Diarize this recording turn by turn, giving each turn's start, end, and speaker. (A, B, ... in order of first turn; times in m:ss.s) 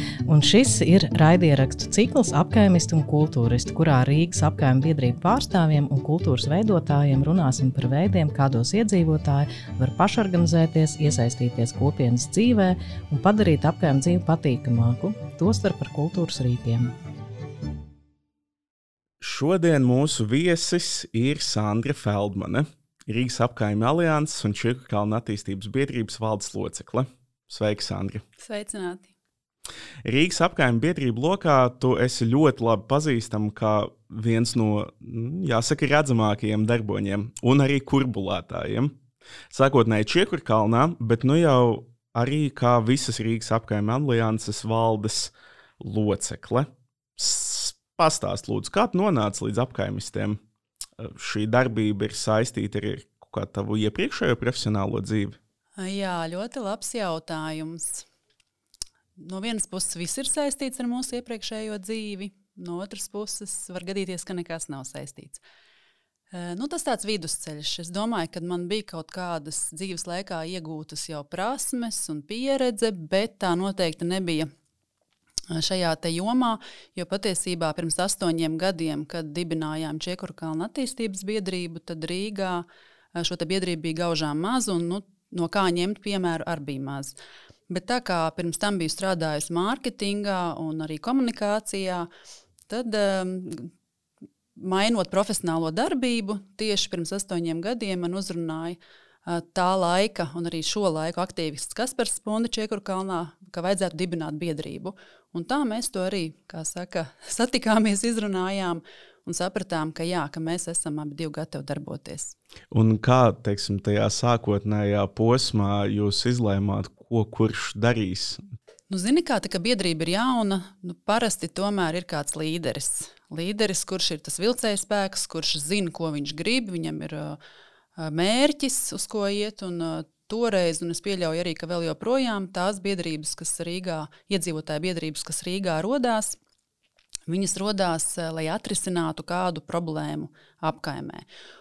0:00.3-0:16.9 A
0:19.2-0:28.2 B
0:28.4-0:29.1 C
0:30.0-0:39.0 B
0:39.5-0:50.4 B
0:51.0-0:55.4 B
0:55.8-0:58.1 C
0:59.2-1:05.4 C
1:06.3-1:14.5 C
1:15.5-1:27.2 C
1:27.7-1:32.1 C
1:32.7-1:33.7 C
1:34.6-1:52.4 C
1:52.7-1:58.4 B
1:58.9-2:07.4 C
2:08.0-2:16.4 C
2:17.3-2:21.2 C